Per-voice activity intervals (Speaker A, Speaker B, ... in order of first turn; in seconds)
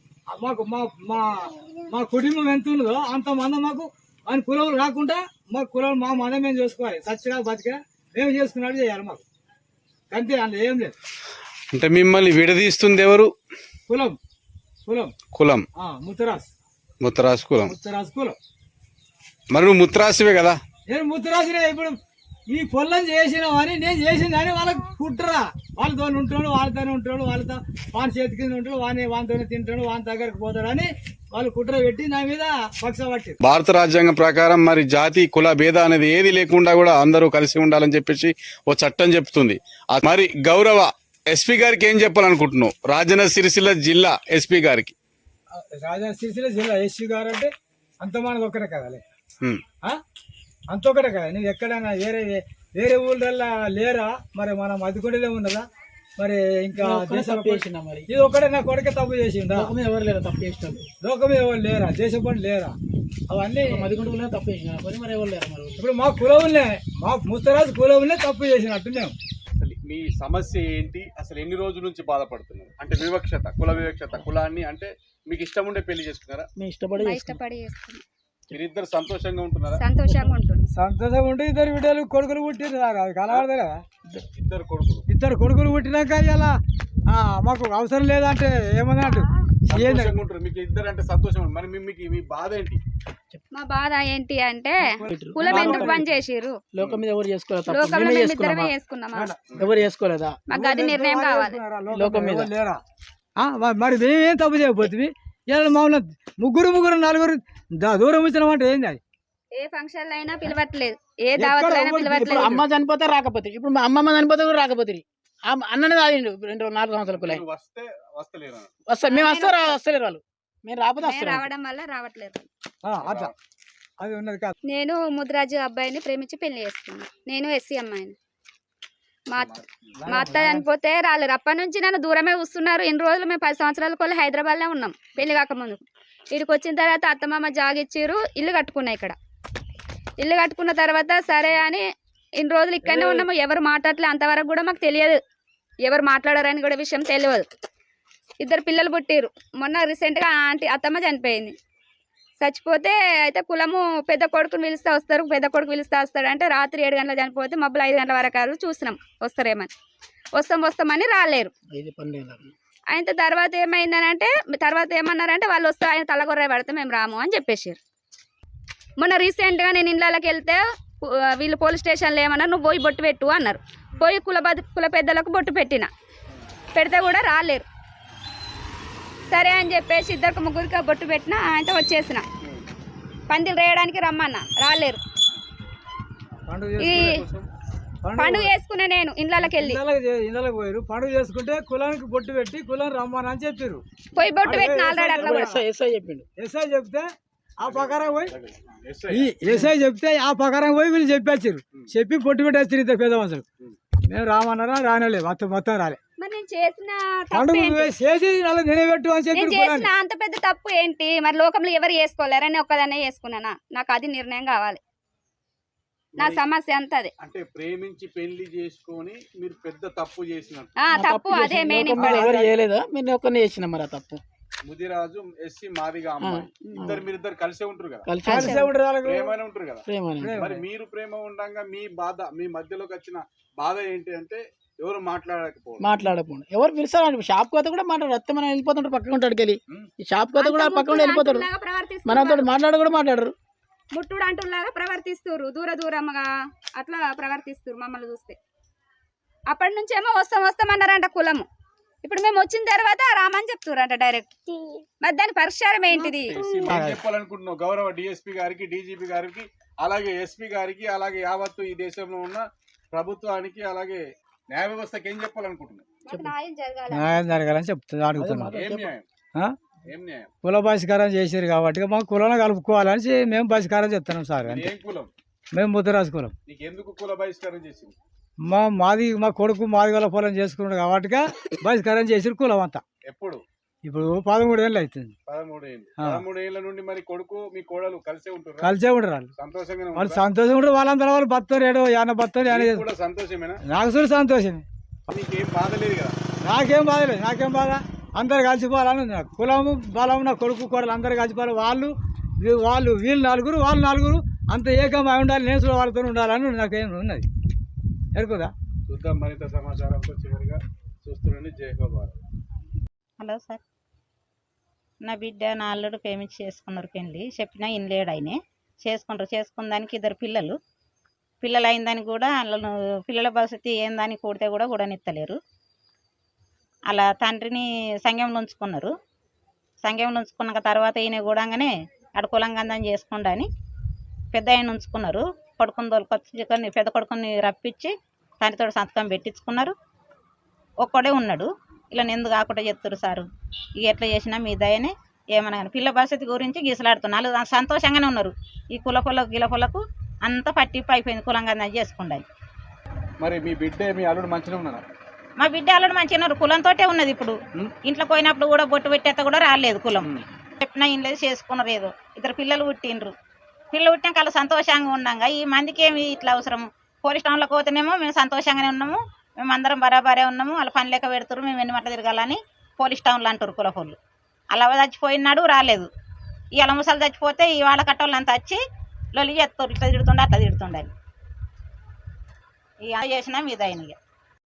Speaker A: 0.3-9.2, 10.1-10.9, 13.9-14.2, 14.9-15.1, 15.8-16.5, 17.6-18.4, 20.9-21.9, 22.5-33.4, 45.5-49.0, 50.7-55.7, 56.2-59.7, 61.0-62.8, 63.3-63.9, 65.8-69.2, 80.7-83.8, 85.1-86.5, 87.1-90.2, 94.8-96.0, 99.1-99.4, 100.5-102.8, 103.4-109.0, 111.4-112.7, 122.8-123.3, 124.0-124.5, 130.0-130.7, 186.5-187.2, 188.0-188.5, 189.4-193.8, 194.4-195.6, 196.4-197.1, 197.6-198.3, 199.1-203.4, 204.1-206.0, 207.3-209.9, 222.0-222.5, 228.3-229.3, 230.2-230.7, 256.7-257.0, 266.9-268.6, 270.4-274.7, 275.5-276.4, 278.4-282.8, 283.9-285.1, 288.6-289.3, 289.9-292.9, 293.7-294.6, 296.4-307.2, 308.1-308.5
Speaker B: 11.7-13.3, 15.3-15.7, 17.0-17.7, 19.5-20.6, 33.4-45.0, 69.6-76.5, 78.5-79.8, 84.3-85.1, 89.7-92.8, 117.1-118.7, 123.0-123.3, 129.4-129.9, 187.1-187.5, 197.7-199.3, 216.2-216.4, 217.2-220.8, 224.7-228.1, 229.1-235.9, 256.2-265.9, 268.5-269.1, 269.9-270.3, 274.4-275.1, 276.5-277.9, 283.1-283.4, 285.3-288.8, 289.4-290.2, 292.5-293.6, 295.1-296.2, 308.9-312.2, 353.2-354.8
Speaker C: 56.8-58.1, 59.5-60.9, 63.6-65.8, 76.6-77.4, 80.0-80.3, 95.1-96.1, 96.7-98.7, 99.6-100.4, 101.9-102.5, 112.2-117.4, 118.9-121.5, 142.8-143.3, 161.7-162.5, 195.2-196.2, 220.9-224.2, 226.2-227.1, 228.1-228.6, 229.9-230.4, 235.8-241.5, 242.1-243.3, 268.2-268.9
Speaker D: 77.0-78.0, 79.8-80.7, 93.5-96.6, 97.7-99.3, 100.5-101.6, 109.5-112.6, 119.1-119.8, 121.0-122.5, 124.7-128.2, 129.3-139.2, 140.2-141.8, 142.4-145.2, 145.8-147.5, 148.4-151.6, 152.4-159.7, 160.4-161.5, 162.9-167.8, 169.0-175.9, 176.7-177.7, 179.3-182.2, 183.3-185.0, 186.8-187.2, 188.2-189.8, 194.2-195.5, 206.2-207.9, 209.3-214.8, 216.2-217.1, 220.8-222.3, 228.3-228.7, 240.4-242.5, 243.9-248.4, 249.5-251.5, 252.0-254.4, 255.0-256.4, 266.1-267.1
Speaker E: 313.2-313.6, 315.0-320.6, 321.4-325.4, 326.9-328.9, 329.8-333.5, 334.3-339.8, 340.8-343.3, 343.8-352.2, 355.4-360.1, 360.6-363.1, 363.7-374.0, 374.5-375.9, 376.6-378.6, 379.1-380.9, 382.9-384.0